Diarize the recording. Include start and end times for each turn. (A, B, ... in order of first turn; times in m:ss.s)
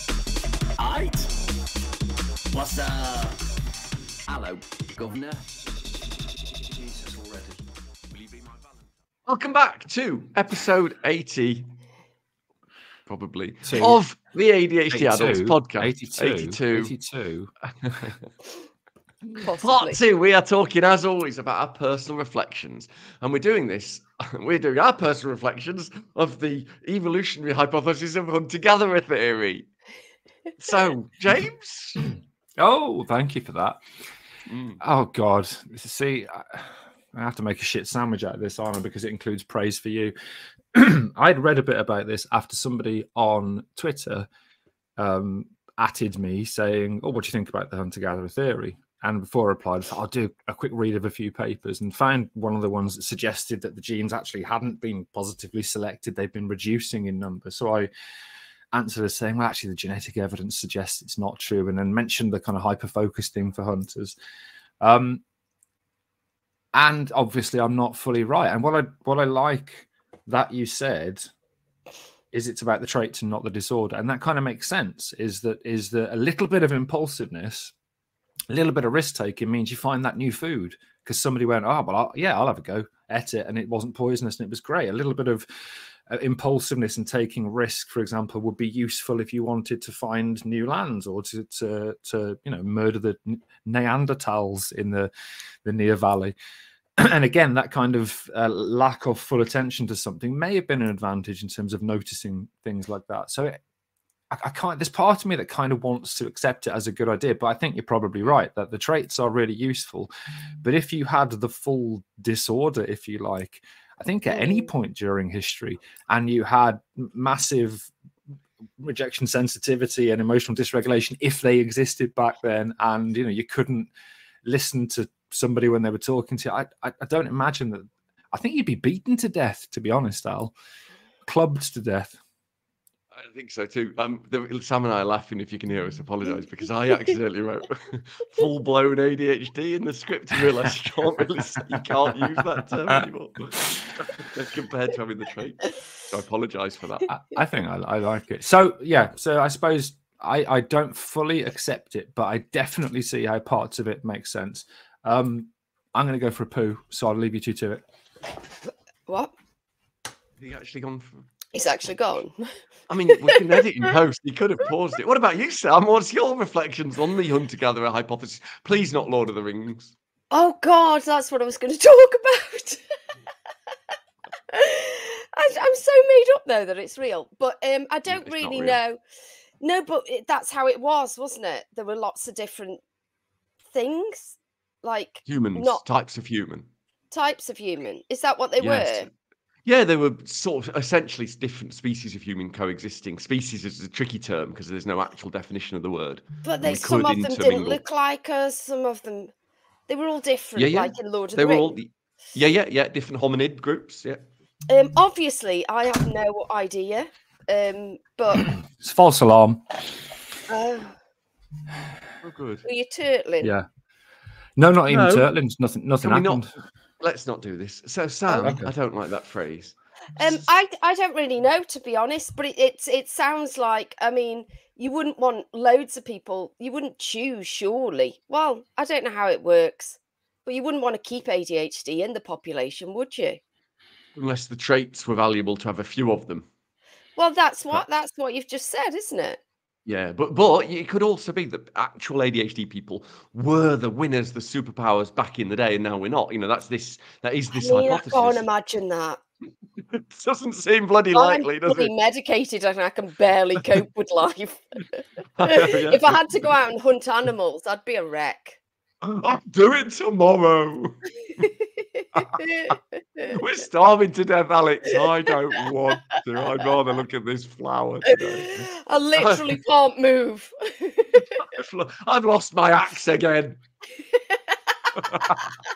0:00.8-0:01.3 A
0:02.5-0:03.4 A
0:04.3-0:05.6 A
0:06.6-0:08.8 A
0:09.3-0:11.7 B
0:13.1-0:16.9 B
0:13.6-0:14.0 C
0:14.9-0:17.5 C
0:17.8-0:18.2 B
0:19.3-0:29.7 B
0:19.4-0:20.0 D
0:30.6-0:32.1 B
0:32.6-0:33.8 C
0:34.5-0:34.8 B
0:34.8-0:40.1 C
0:40.7-0:44.3 C
0:45.0-0:57.9 C
0:58.7-1:04.2 C
1:04.8-1:05.2 C
1:06.7-1:11.3 C
1:12.3-1:17.7 C
1:18.5-1:25.4 C
1:26.1-1:35.1 C
1:35.6-1:36.3 C
1:37.0-1:43.6 C
1:44.3-1:50.1 C
1:50.6-1:57.9 C
1:54.3-1:54.7 D
1:58.8-2:03.9 C
2:04.4-2:10.5 C
2:11.2-2:12.2 C
2:13.1-2:27.1 B
2:27.1-2:37.8 C
2:39.1-2:39.3 D
2:40.4-2:41.3 B
2:41.5-2:42.5 D
2:42.9-2:49.9 B
2:50.3-2:52.8 D
2:54.5-2:59.0 D
2:58.1-2:58.8 B
2:59.6-3:02.8 D
3:03.7-3:05.8 D
3:05.3-3:06.7 B
3:07.1-3:09.1 D
3:08.6-3:09.1 B
3:09.6-3:17.8 B
3:16.4-3:19.3 D
3:19.9-3:21.7 D
3:20.6-3:24.2 B
3:24.7-3:28.5 D
3:28.5-3:29.7 C
3:30.5-3:31.0 D
3:32.2-3:32.6 B
3:32.6-3:33.5 D
3:34.6-3:36.5 C
3:34.9-3:35.3 B
3:36.0-3:36.5 B
3:37.0-3:40.4 B
3:38.3-3:38.6 D
3:38.4-3:38.7 C
3:40.2-3:53.4 D
3:54.2-3:56.5 B
3:57.2-3:59.4 D
3:59.8-4:08.4 B
4:07.5-4:09.2 D
4:09.8-4:11.9 B
4:11.1-4:18.6 D
4:15.4-4:16.5 B
4:19.0-4:21.1 B
4:22.0-4:23.3 D
4:23.3-4:28.6 B
4:28.1-4:31.4 D
4:29.2-4:29.6 B
4:31.4-4:33.6 B
4:34.9-4:35.5 B